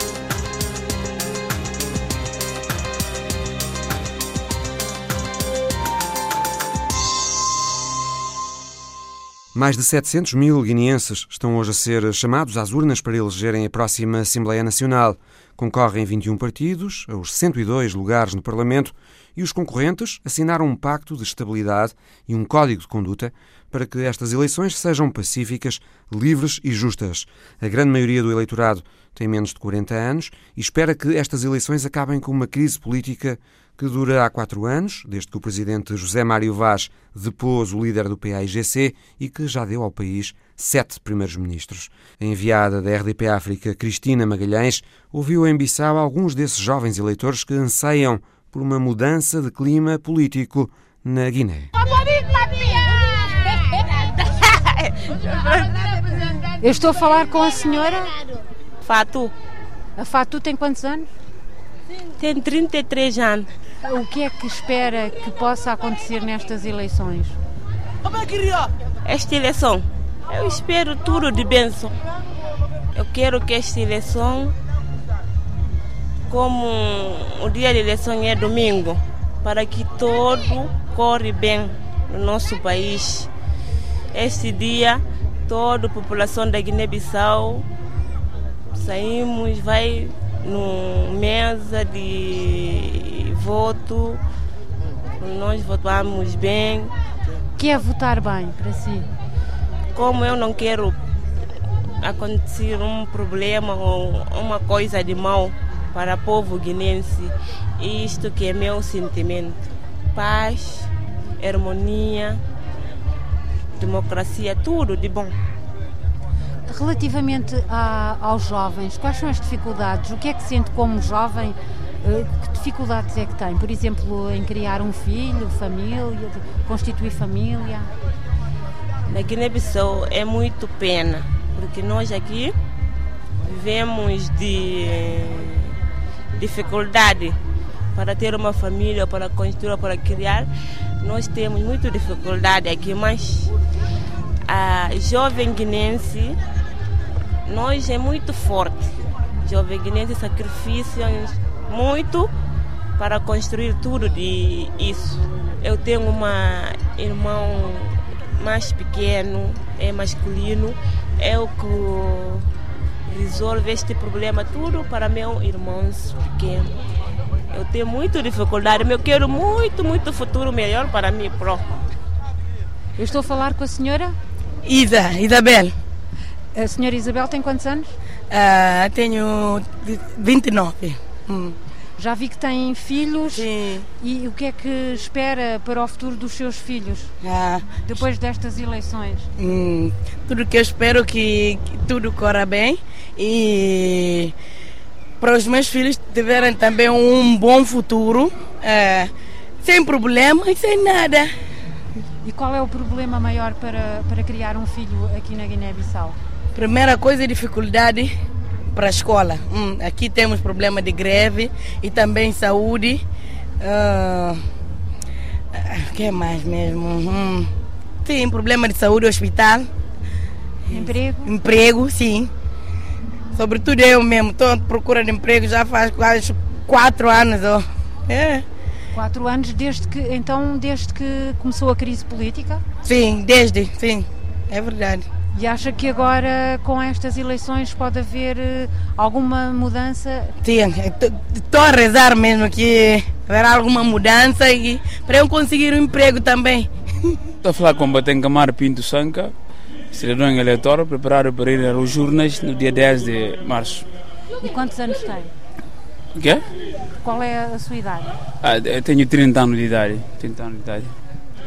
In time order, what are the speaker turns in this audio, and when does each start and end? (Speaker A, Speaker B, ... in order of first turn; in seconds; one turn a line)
Speaker A: 9.5-51.7
Speaker B: 53.5-56.1
Speaker C: 56.6-58.2
Speaker B: 58.8-59.3
Speaker C: 60.0-61.1
Speaker B: 62.2-63.5
Speaker C: 63.8-67.4
Speaker B: 69.0-71.9
Speaker B: 72.9-74.5
Speaker B: 76.3-83.3
Speaker B: 84.1-87.7
Speaker B: 88.7-94.2
Speaker B: 95.2-96.9
Speaker C: 97.5-99.1
Speaker B: 99.9-101.0
Speaker B: 102.0-109.6
Speaker B: 110.1-112.4
Speaker B: 113.8-115.4
Speaker C: 116.7-127.9
Speaker B: 129.1-132.5
Speaker B: 133.4-135.8
Speaker B: 136.3-137.4
Speaker B: 137.9-140.5
Speaker B: 141.0-143.5
Speaker B: 144.5-146.4
Speaker B: 147.4-152.3
Speaker B: 153.0-162.4
Speaker B: 163.1-166.7
Speaker B: 167.5-171.7
Speaker C: 173.0-174.2
Speaker D: 174.6-175.7
Speaker C: 176.5-177.9
Speaker D: 178.3-181.6
Speaker C: 182.0-187.1
Speaker D: 183.3-183.9
Speaker D: 187.2-187.7
Speaker C: 187.8-189.3
Speaker D: 189.4-194.3
Speaker D: 195.2-199.1
Speaker D: 199.6-201.3
Speaker C: 202.2-206.2
Speaker D: 206.5-208.1
Speaker D: 208.7-213.0
Speaker D: 213.6-214.4
Speaker D: 215.5-217.5
Speaker D: 218.0-219.7
Speaker C: 220.7-221.3
Speaker D: 220.7-222.3
Speaker D: 223.3-228.4
Speaker C: 228.9-232.6
Speaker D: 232.8-235.1
Speaker C: 235.3-240.3
Speaker D: 240.4-247.2
Speaker E: 247.4-249.3
Speaker E: 249.9-253.9
Speaker C: 254.4-255.3
Speaker E: 256.1-256.4
Speaker C: 257.0-258.1
Speaker E: 258.4-260.9